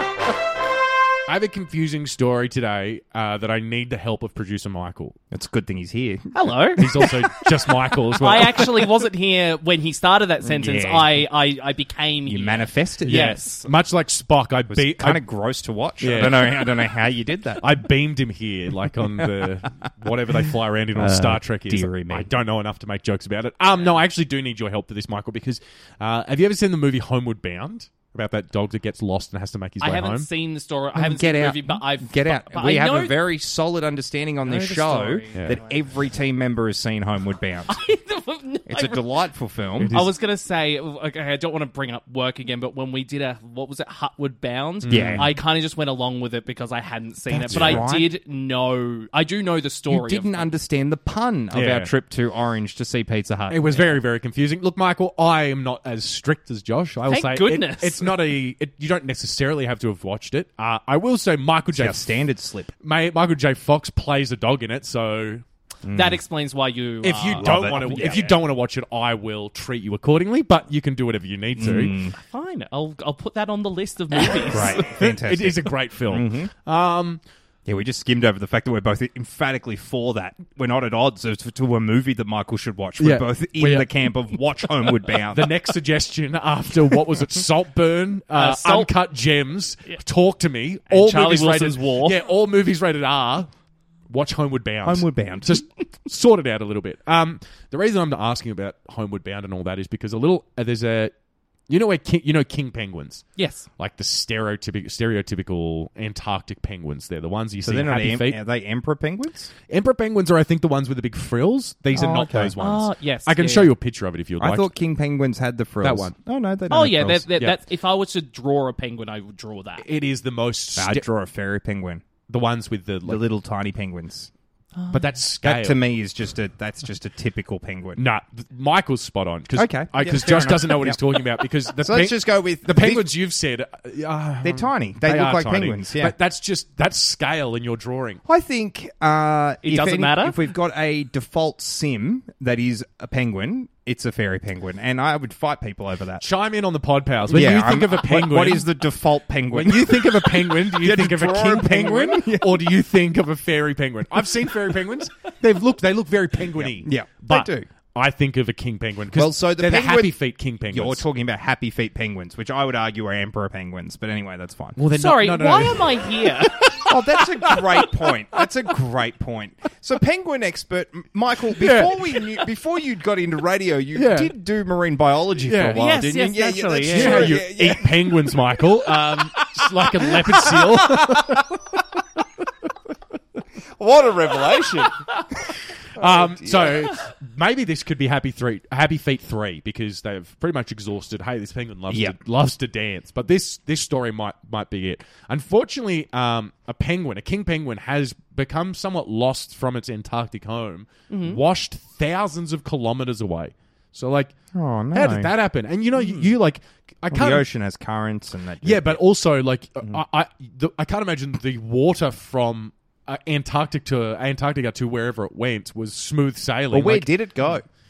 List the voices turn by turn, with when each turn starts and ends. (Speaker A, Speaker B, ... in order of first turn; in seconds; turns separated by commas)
Speaker A: 1.3-5.2, Speaker B: 5.3-7.1, Speaker C: 6.3-7.1, Speaker A: 6.8-8.8, Speaker C: 8.2-13.7, Speaker B: 10.4-11.2, Speaker B: 12.3-13.4, Speaker A: 13.1-15.2, Speaker B: 14.7-17.7, Speaker A: 16.0-16.8, Speaker A: 17.6-30.3, Speaker B: 19.1-19.7, Speaker B: 20.9-22.3, Speaker C: 29.8-33.2, Speaker B: 30.9-37.8, Speaker C: 34.4-35.9, Speaker A: 35.3-35.6, Speaker C: 37.7-39.2, Speaker B: 38.7-40.0, Speaker A: 39.8-40.1, Speaker C: 39.9-50.5, Speaker A: 44.8-45.3, Speaker B: 44.9-45.3, Speaker B: 47.3-48.1, Speaker A: 47.5-47.9, Speaker B: 49.9-54.0, Speaker A: 51.5-51.9, Speaker A: 53.5-62.1, Speaker C: 57.1-58.1, Speaker B: 61.8-62.7, Speaker A: 62.8-65.5, Speaker B: 65.8-66.2, Speaker C: 65.9-68.3, Speaker A: 67.0-72.0, Speaker B: 67.4-68.3, Speaker B: 71.6-72.2, Speaker C: 72.1-75.0, Speaker B: 74.5-76.5, Speaker A: 74.9-77.2, Speaker B: 77.7-85.5, Speaker A: 83.0-84.0, Speaker A: 85.0-93.5, Speaker C: 88.3-88.9, Speaker C: 90.9-92.2, Speaker A: 94.1-101.1, Speaker B: 94.8-95.6, Speaker A: 101.7-103.2, Speaker C: 103.4-103.7, Speaker A: 103.8-108.4, Speaker B: 107.6-109.5, Speaker A: 109.7-114.7, Speaker B: 111.9-112.5, Speaker C: 112.6-113.7, Speaker B: 114.4-117.3, Speaker A: 115.8-116.1, Speaker C: 116.7-119.8, Speaker A: 119.8-121.1, Speaker B: 120.8-122.0, Speaker A: 122.3-123.2, Speaker B: 123.1-124.3, Speaker C: 124.7-125.1, Speaker A: 124.9-125.8, Speaker B: 125.4-128.0, Speaker A: 128.0-138.2, Speaker B: 129.5-131.0, Speaker B: 131.8-133.1, Speaker B: 134.4-136.2, Speaker B: 138.2-146.2, Speaker C: 139.6-140.4, Speaker A: 146.2-148.7, Speaker B: 147.3-152.7, Speaker A: 149.5-161.1, Speaker B: 156.5-157.7, Speaker B: 159.1-160.2, Speaker B: 160.7-164.8, Speaker A: 164.8-168.4, Speaker C: 164.9-166.8, Speaker B: 166.9-177.9, Speaker A: 171.5-172.3, Speaker A: 173.9-174.3, Speaker A: 175.4-175.8, Speaker C: 175.7-177.4, Speaker A: 176.9-181.5, Speaker C: 178.9-179.5, Speaker B: 180.3-181.4, Speaker B: 183.8-185.1, Speaker A: 185.9-204.3, Speaker B: 186.0-186.9, Speaker B: 191.9-192.2, Speaker C: 201.1-201.4, Speaker B: 204.5-205.3, Speaker A: 204.9-207.5, Speaker B: 207.1-209.0, Speaker A: 208.6-217.1, Speaker B: 216.7-217.6